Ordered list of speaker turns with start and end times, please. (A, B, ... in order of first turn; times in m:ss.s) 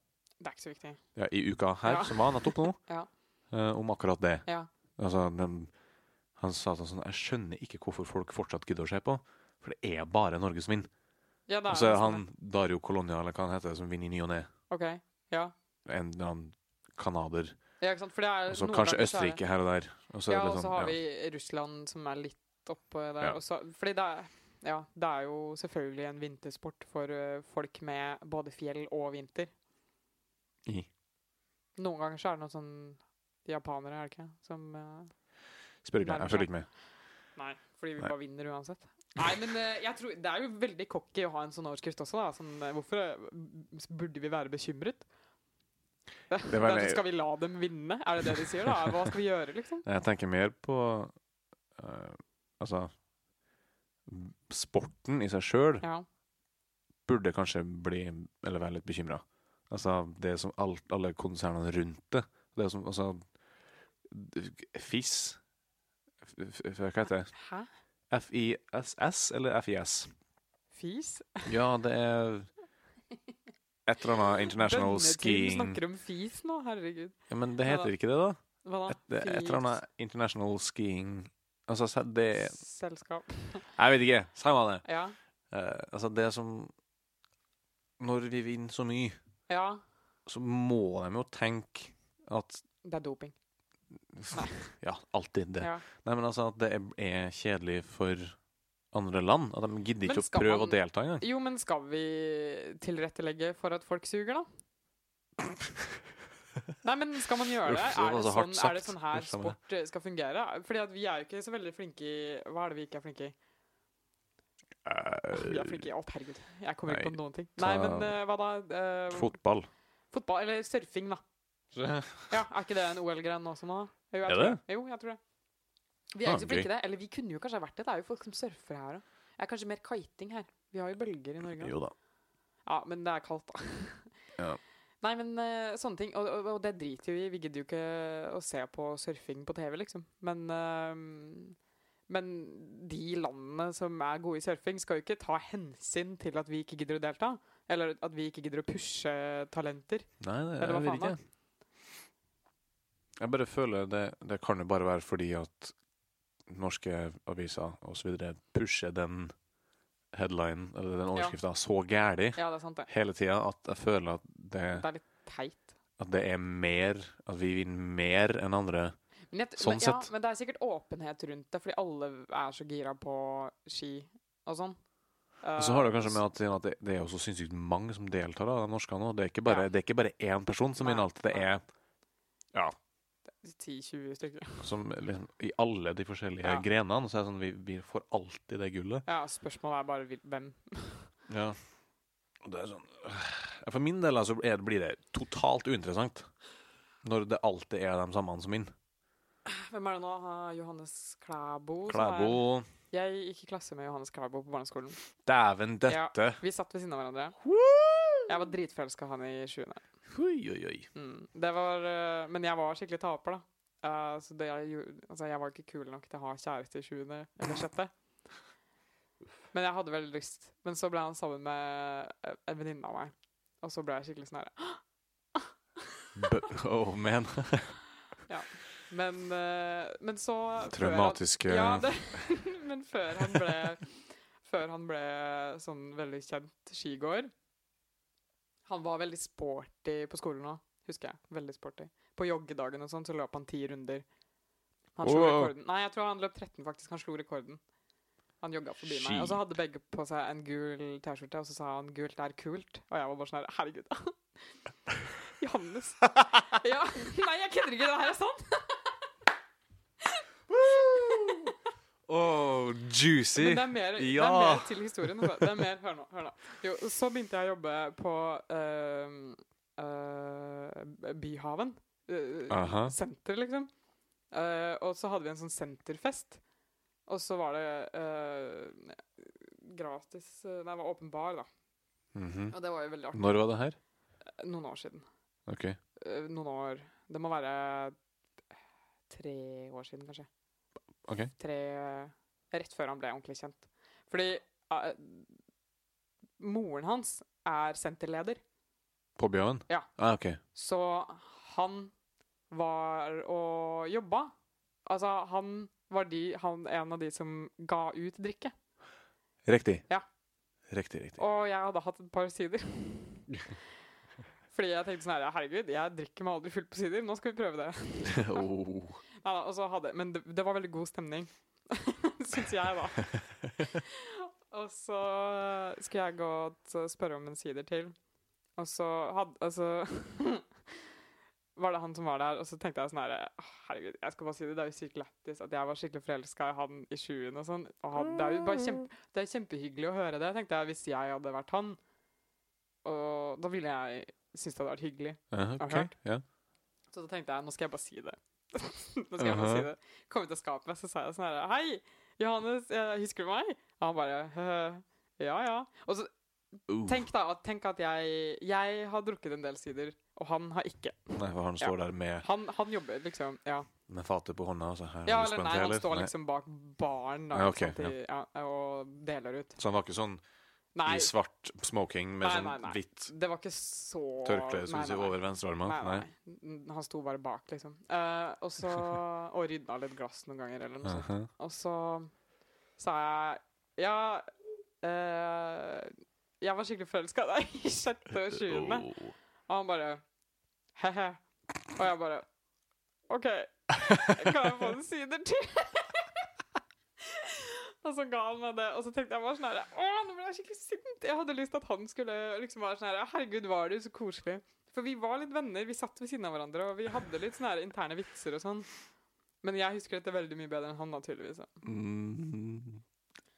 0:00.4-0:01.0 A
0:01.1-0:02.8 B
0:01.8-0:03.1 A
0:03.5-0:04.4 B
0:05.0-0:05.7 B
0:06.4-0:10.9 B
0:11.5-0:12.2 A
0:11.7-0:14.5 B
0:14.7-0:15.5 A
0:15.8-0:17.6 B
0:17.8-0:19.4 A
0:18.5-0:20.9 B
0:20.3-0:29.5 A
0:31.8-0:35.1 A
0:35.8-0:36.7 B
0:36.0-0:36.5 A
0:37.4-0:45.0 A
0:46.3-0:49.8 A
0:46.5-0:47.0 B
0:49.8-0:51.1 B
0:51.8-0:52.9 B
0:54.1-0:55.8 B
0:57.0-1:03.2 B
1:04.1-1:05.4 B
1:06.2-1:07.3 B
1:07.3-1:07.7 A
1:08.1-1:10.1 B
1:10.7-1:11.5 A
1:11.5-1:12.5 B
1:13.8-1:15.8 B
1:14.5-1:17.9 A
1:17.3-1:22.6 B
1:18.6-1:19.8 A
1:22.3-1:23.7 A
1:23.8-1:24.8 B
1:24.8-1:25.2 A
1:25.5-1:26.7 B
1:28.0-1:29.2 B
1:29.5-1:29.8 A
1:30.3-1:32.6 B
1:32.8-1:33.3 A
1:34.1-1:38.4 B
1:34.3-1:34.7 A
1:35.6-1:35.8 A
1:38.9-1:41.2 B
1:40.0-1:44.5 A
1:46.8-1:53.3 A
1:47.6-1:49.6 B
1:54.8-1:55.8 B
1:55.3-1:59.3 A
1:56.9-1:58.2 B
1:59.1-1:59.7 B
2:00.1-2:01.2 A
2:01.7-2:02.4 B
2:02.3-2:05.2 A
2:04.2-2:04.6 B
2:06.1-2:11.8 A
2:06.2-2:06.7 B
2:11.6-2:11.9 B
2:12.6-2:14.1 A
2:15.0-2:21.6 A
2:22.1-2:31.2 A
2:30.2-2:31.2 B
2:33.2-2:35.7 B
2:36.5-2:39.3 B
2:40.1-2:44.8 B
2:42.4-2:42.9 A
2:44.7-2:45.7 A
2:46.0-2:48.9 B
2:49.3-2:54.8 A
2:49.6-2:50.1 B
2:55.4-2:56.2 A
2:55.6-3:01.6 B
3:00.8-3:01.5 A
3:03.4-3:04.7 A
3:04.6-3:09.0 B
3:09.0-3:11.1 A
3:11.3-3:11.6 B
3:12.4-3:16.3 B
3:17.0-3:18.7 B
3:19.4-3:25.0 A
3:21.9-3:22.7 B
3:25.2-3:26.4 B
3:25.9-3:27.4 A
3:27.4-3:28.3 B
3:28.3-3:29.8 A
3:30.1-3:30.9 B
3:30.9-3:37.9 A
3:39.5-3:44.8 A
3:45.3-3:46.1 A
3:46.2-3:47.8 B
3:48.3-3:57.3 A
3:50.7-3:51.9 B
3:53.3-3:53.6 B
3:58.7-4:04.0 A
4:05.0-4:07.6 A
4:05.0-4:05.5 B
4:08.4-4:14.2 A
4:08.8-4:09.4 B
4:15.4-4:18.9 A
4:20.5-4:21.5 B
4:20.9-4:21.5 A
4:22.1-4:25.6 B
4:23.3-4:33.7 A
4:32.5-4:32.9 B
4:34.3-4:36.4 A
4:37.1-4:41.5 A
4:42.1-4:42.5 B
4:42.5-4:43.4 A
4:43.1-4:43.8 B
4:44.4-4:45.0 A
4:45.5-4:45.8 B
4:46.0-4:48.0 A
4:49.1-4:50.3 A
4:51.0-4:51.3 B
4:51.4-4:55.3 A
4:56.4-4:58.4 A
4:59.2-5:00.4 B
5:00.5-5:01.9 A
5:02.5-5:04.3 A
5:04.8-5:08.5 A
5:09.4-5:09.8 B
5:10.7-5:11.2 B
5:11.2-5:13.3 A
5:14.5-5:18.4 A
5:18.0-5:19.0 B
5:19.2-5:23.1 A
5:23.6-5:27.9 A
5:28.6-5:30.5 A
5:31.6-5:41.8 A
5:38.0-5:38.8 B
5:42.8-5:45.9 A
5:45.3-5:46.2 B
5:46.9-5:56.1 A
5:49.2-5:49.7 B
5:56.7-5:57.0 B
5:56.8-6:03.7 A
6:01.2-6:02.2 B
6:03.9-6:06.1 B
6:05.0-6:09.6 A
6:07.3-6:07.9 B
6:09.6-6:10.2 B
6:10.7-6:11.1 A
6:10.8-6:13.1 B
6:12.2-6:22.1 A
6:14.2-6:16.0 B
6:20.8-6:21.3 B
6:22.8-6:24.3 A
6:24.8-6:29.0 A
6:28.3-6:29.1 B
6:29.5-6:30.0 A
6:30.8-6:32.3 A
6:33.1-6:36.1 A
6:37.0-6:48.7 A
6:49.4-6:51.5 A
6:51.6-6:52.8 B